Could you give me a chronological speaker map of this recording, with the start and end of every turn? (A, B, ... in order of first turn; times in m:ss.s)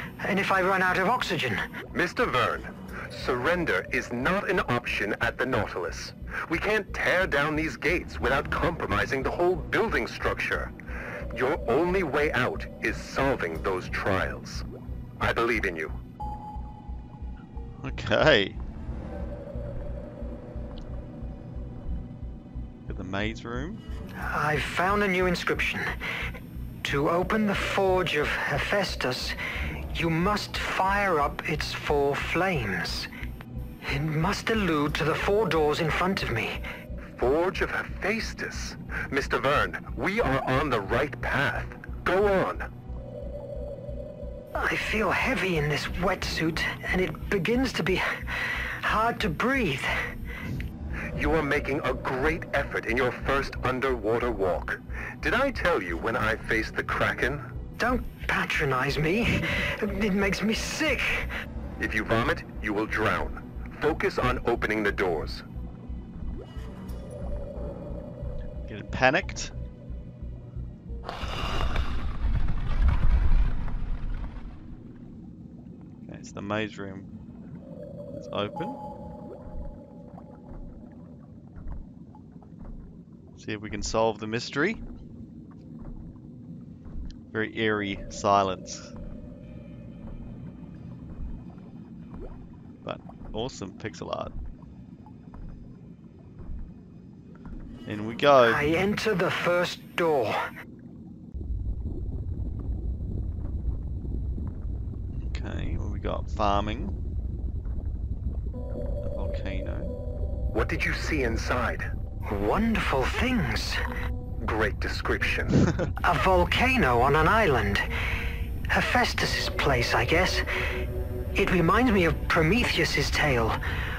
0:00.2-0:01.7 A
0:01.9-0:10.7 B
0:11.3-0:14.7 B
0:15.2-0:16.0 B
0:17.8-0:18.6 C
0:22.9-0:23.8 C
0:24.3-0:25.9 A
0:26.8-0:29.4 A
0:29.9-0:33.1 A
0:33.8-0:36.6 A
0:37.1-0:42.7 B
0:44.6-0:49.9 A
0:51.2-0:57.5 B
0:57.8-1:01.3 A
1:01.8-1:05.4 B
1:08.7-1:09.5 C
1:16.1-1:17.1 C
1:18.1-1:18.8 C
1:23.4-1:24.8 C
1:27.3-1:28.9 C
1:32.8-1:34.3 C
1:37.9-1:38.6 C
1:38.4-1:40.5 A
1:45.1-1:47.0 C
1:49.0-1:50.0 C
1:50.5-1:51.9 B
1:52.3-1:53.8 A
1:54.4-1:55.6 B
1:56.0-1:57.8 A
1:58.7-2:00.4 A
2:01.4-2:03.6 A